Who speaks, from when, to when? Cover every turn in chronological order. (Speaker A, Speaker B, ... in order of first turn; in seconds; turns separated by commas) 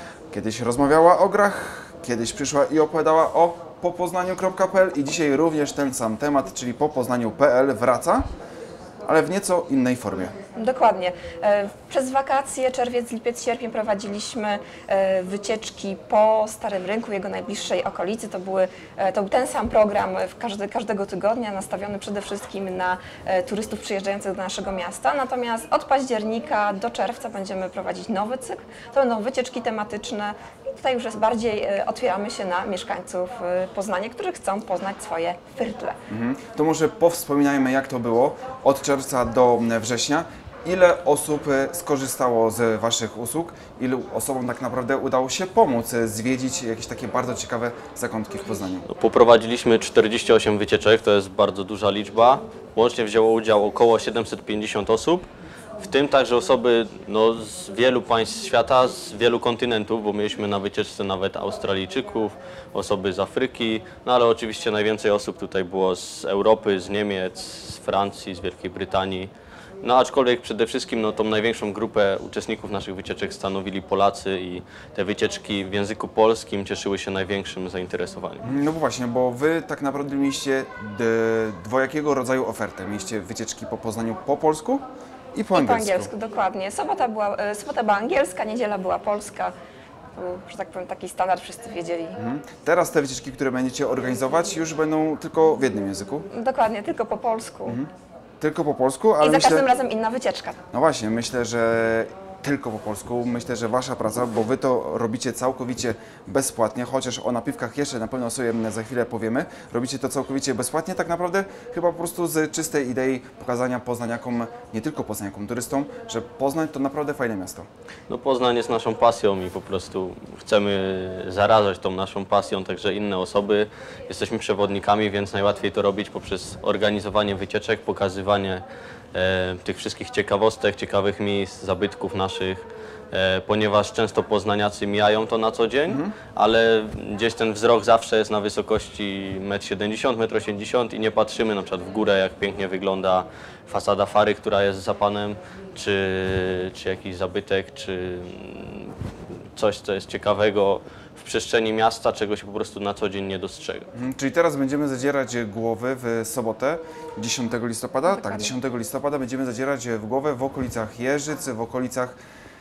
Speaker A: 0.3-8.2, Speaker A: 9.1-10.3, Speaker B: 10.5-36.0, Speaker A: 36.1-48.9, Speaker C: 48.9-55.3, Speaker C: 55.8-69.3, Speaker C: 69.8-78.5, Speaker A: 78.4-86.1, Speaker B: 85.5-89.5, Speaker B: 90.2-92.2, Speaker A: 92.2-96.2, Speaker B: 96.3-97.8, Speaker A: 98.4-99.7, Speaker B: 99.2-100.6, Speaker A: 100.7-117.7, Speaker C: 118.1-128.6, Speaker C: 129.1-148.9, Speaker A: 135.9-136.1, Speaker C: 149.6-153.9, Speaker A: 153.9-162.2, Speaker B: 158.1-158.5